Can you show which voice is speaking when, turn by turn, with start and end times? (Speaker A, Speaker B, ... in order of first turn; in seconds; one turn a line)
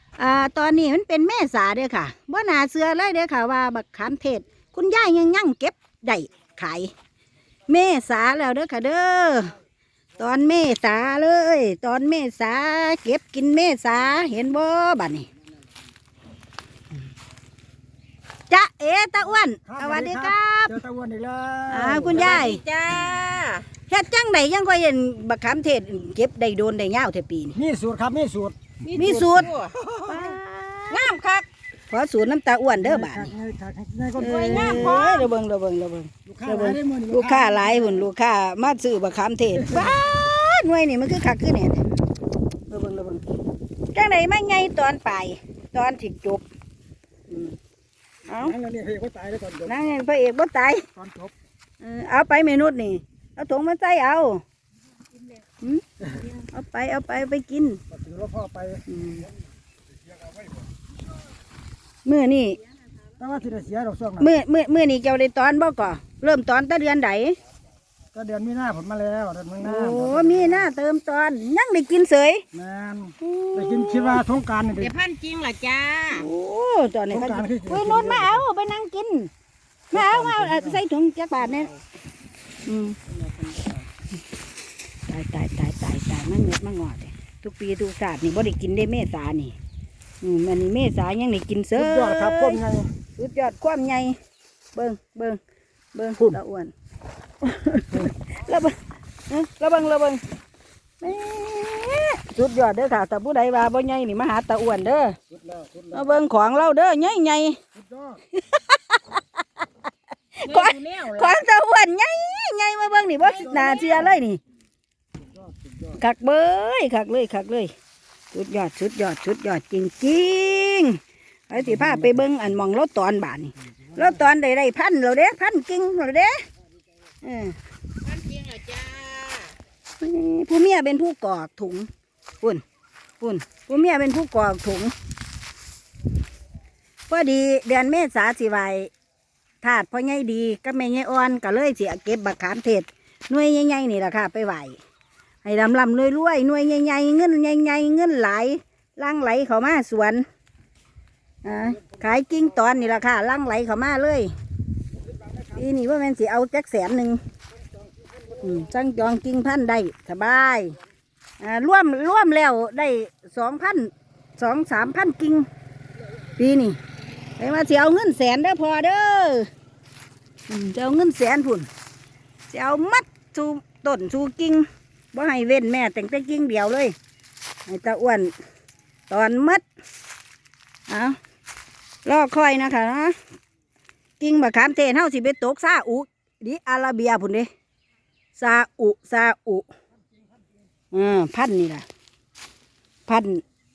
Speaker A: 0.2-6.9
Speaker A: 7.7-9.5
Speaker A: 10.2-15.3
Speaker A: 18.5-20.8
Speaker B: 19.7-22.4
Speaker A: 21.7-22.6
Speaker C: 22.1-23.7
Speaker A: 23.9-27.6
Speaker B: 27.6-28.6
Speaker C: 28.8-30.4
Speaker A: 29.0-29.5
Speaker B: 29.8-30.2
Speaker A: 30.1-31.1
Speaker C: 30.9-31.5
Speaker A: 31.9-33.3
Speaker B: 32.8-35.1
Speaker A: 34.2-41.9
Speaker C: 34.2-35.3
Speaker B: 36.3-38.1
Speaker B: 39.6-40.0
Speaker A: 42.7-43.2
Speaker A: 43.9-46.5
Speaker A: 47.3-47.6
Speaker A: 48.3-48.5
Speaker B: 48.4-49.9
Speaker A: 49.7-50.9
Speaker B: 51.0-51.3
Speaker A: 51.8-54.4
Speaker A: 55.6-57.8
Speaker B: 57.9-58.8
Speaker A: 58.9-59.3
Speaker A: 62.0-62.6
Speaker B: 63.2-64.3
Speaker A: 64.2-67.4
Speaker B: 68.1-70.7
Speaker A: 69.6-72.4
Speaker B: 72.5-75.0
Speaker A: 73.2-74.2
Speaker C: 74.8-76.3
Speaker A: 76.1-79.3
Speaker B: 77.1-78.5
Speaker A: 79.9-81.8
Speaker B: 79.9-80.8
Speaker A: 82.7-83.0
Speaker B: 83.2-83.8
Speaker A: 85.1-89.5
Speaker A: 90.2-92.6
Speaker B: 91.8-92.9
Speaker A: 93.2-94.2
Speaker A: 94.8-95.4
Speaker A: 95.9-96.7
Speaker A: 97.4-98.8
Speaker A: 99.3-100.2
Speaker A: 101.0-105.2
Speaker B: 105.3-106.1
Speaker A: 105.9-107.6
Speaker B: 107.8-108.2
Speaker A: 108.3-109.2
Speaker A: 110.4-114.4
Speaker C: 110.5-111.4
Speaker C: 113.4-114.0
Speaker B: 115.2-116.0
Speaker A: 115.9-117.7
Speaker A: 118.3-126.4
Speaker B: 121.8-122.1
Speaker A: 127.2-127.6
Speaker C: 128.0-129.6
Speaker A: 130.0-131.9
Speaker A: 133.2-134.9
Speaker A: 137.1-138.9
Speaker A: 139.6-144.8
Speaker A: 145.4-150.2
Speaker A: 151.4-154.3
Speaker A: 155.5-157.2
Speaker A: 158.4-160.8
Speaker A: 161.4-165.5
Speaker A: 166.4-166.8
Speaker A: 167.4-169.5
Speaker A: 170.5-171.7
Speaker A: 172.5-176.9
Speaker A: 177.7-178.3
Speaker A: 179.1-179.6
Speaker A: 180.9-181.2
Speaker A: 182.1-183.2
Speaker A: 184.2-187.5
Speaker A: 188.4-189.7
Speaker A: 190.9-191.9
Speaker A: 193.1-193.4